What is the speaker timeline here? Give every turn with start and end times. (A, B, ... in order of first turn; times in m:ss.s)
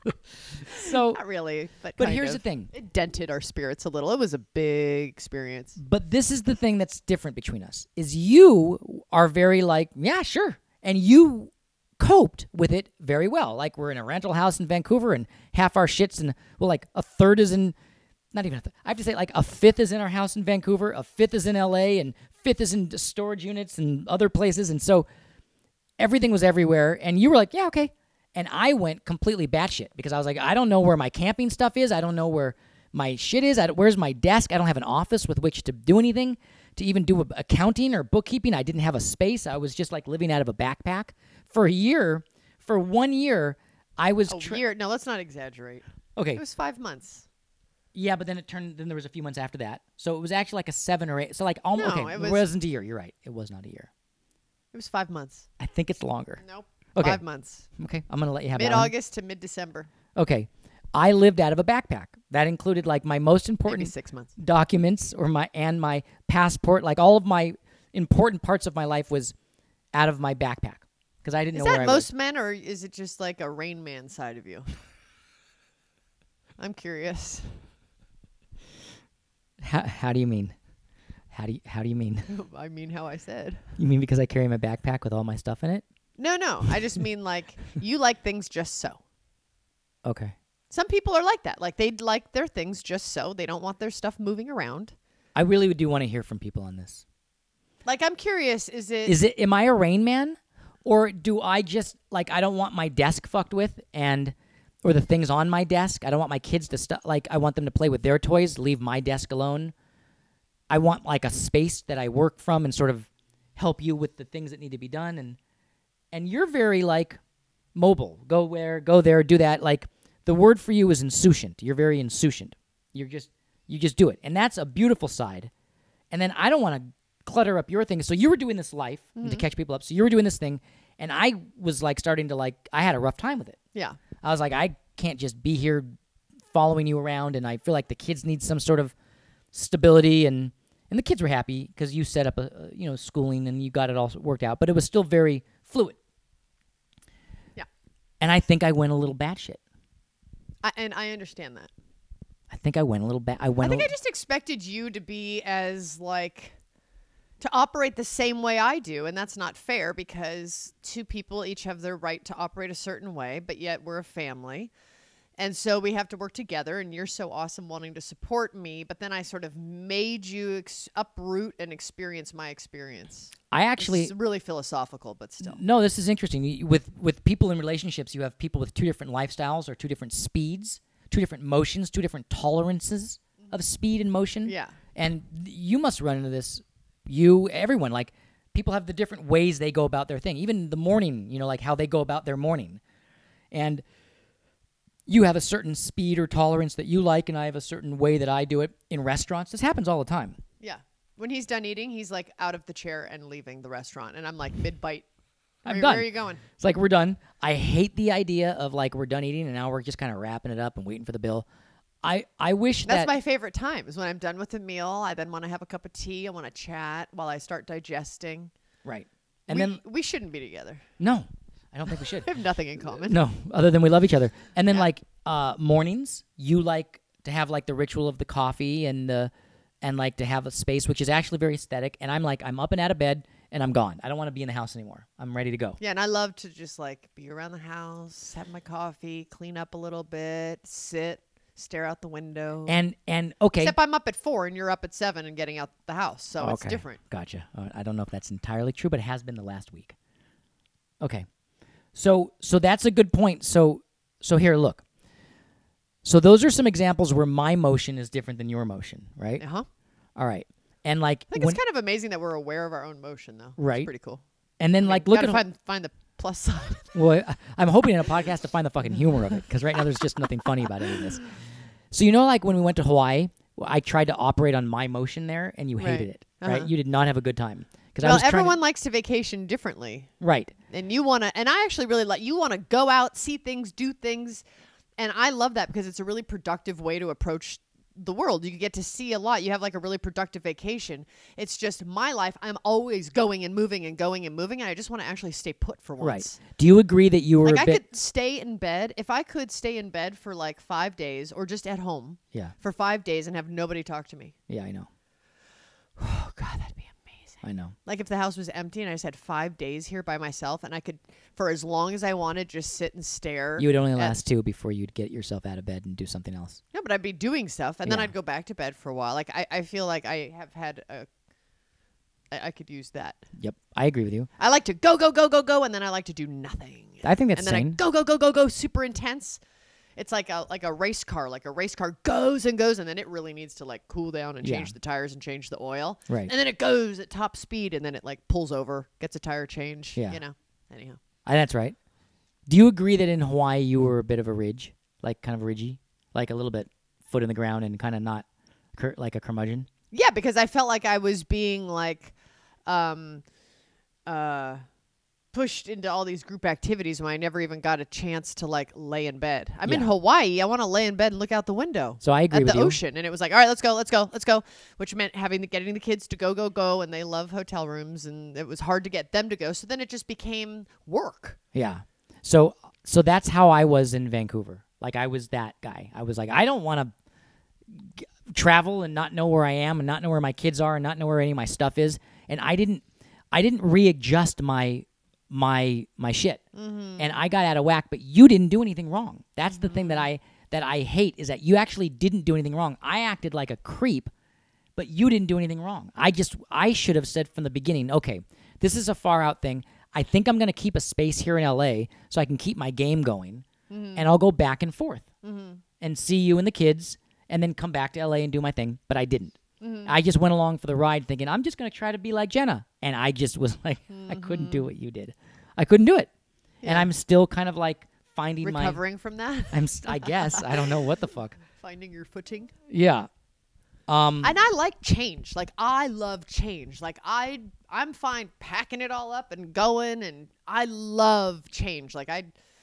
0:00.6-0:05.8 A
0:00.7-0:01.2 B
0:02.0-0:02.7 B
0:05.8-0:17.7 B
0:18.3-0:25.0 B
0:26.0-0:44.6 B
0:44.3-0:47.3 A
0:46.2-0:46.4 B
0:47.9-0:53.9 B
0:51.7-0:52.5 A
0:54.7-0:55.5 A
0:55.6-0:56.4 B
0:56.4-0:57.7 A
0:57.0-0:57.2 B
0:57.8-0:58.9 B
0:58.5-0:59.9 A
1:00.1-1:09.3 B
1:03.7-1:04.3 A
1:09.9-1:12.1 B
1:11.5-1:14.8 A
1:16.6-1:17.6 A
1:19.6-1:20.5 B
1:21.3-1:22.3 B
1:22.3-1:23.6 A
1:23.8-1:25.8 B
1:26.2-1:29.0 A
1:30.0-1:30.3 B
1:30.7-1:34.9 A
1:35.3-1:37.0 B
1:37.8-1:39.2 A
1:39.0-1:49.7 B
1:50.7-1:55.4 B
1:56.1-1:57.2 B
1:57.7-2:05.5 B
2:06.1-2:13.6 B
2:09.2-2:09.5 A
2:13.7-2:14.0 A
2:14.2-2:16.0 B
2:16.5-2:18.9 B
2:19.5-2:26.0 B
2:28.2-2:29.6 B
2:30.6-2:31.7 A
2:32.5-2:33.9 B
2:33.6-2:36.6 A
2:37.4-2:44.7 A
2:45.4-2:55.6 A
2:53.5-2:54.1 B
2:55.4-3:12.8 B
3:04.4-3:04.8 A
3:13.5-3:13.8 B
3:15.1-3:20.4 B
3:20.6-3:25.0 A
3:25.6-3:31.4 B
3:25.6-3:26.4 A
3:32.0-3:33.1 B
3:32.8-3:38.5 A
3:38.8-3:39.8 B
3:39.5-3:40.9 A
3:41.0-3:42.3 B
3:42.1-3:43.2 A
3:42.9-3:49.3 B
3:49.8-3:55.8 B
3:55.8-4:02.8 A
4:02.7-4:03.7 B
4:03.6-4:07.0 A
4:06.4-4:10.0 B
4:11.0-4:11.3 B
4:11.9-4:14.8 B
4:16.0-4:19.4 B
4:19.4-4:19.7 A
4:20.2-4:21.6 B
4:21.3-4:24.2 A
4:23.6-4:23.9 B
4:24.6-4:25.4 B
4:24.8-4:26.9 A
4:26.9-4:31.3 B
4:31.9-4:38.6 B
4:35.8-4:36.7 A
4:38.0-4:40.1 A
4:40.2-4:40.5 B
4:40.7-4:44.4 A
4:45.0-4:56.4 A
4:56.0-4:57.8 B
4:57.4-5:04.3 A
5:04.5-5:04.9 B
5:06.0-5:14.2 A
5:07.4-5:07.7 B
5:13.6-5:16.6 B
5:16.7-5:21.1 A
5:17.8-5:18.1 B
5:22.3-5:23.2 A
5:23.4-5:24.3 B
5:24.4-5:29.4 A
5:27.0-5:27.8 B
5:30.0-5:41.0 A
5:34.4-5:34.7 B
5:36.1-5:36.3 B
5:40.0-5:40.2 B
5:41.2-5:41.8 B
5:42.5-5:49.7 B
5:49.9-5:52.1 A
5:52.6-5:53.2 A
5:54.0-5:54.6 A
5:55.3-6:11.4 A
6:02.0-6:02.8 B
6:11.5-6:16.9 B
6:17.7-6:26.4 B
6:26.5-6:27.1 A
6:27.0-6:34.1 B
6:29.5-6:30.0 A
6:34.8-6:45.1 B
6:43.7-6:44.1 A
6:45.2-6:45.6 A
6:45.8-6:56.1 B
6:49.6-6:49.9 A
6:53.9-6:54.7 A
6:56.6-6:56.9 A
6:56.6-6:58.8 B
6:58.4-7:00.7 A
6:59.5-7:01.4 B
7:01.5-7:02.5 A
7:02.7-7:03.1 B
7:03.9-7:04.4 B
7:04.2-7:12.3 A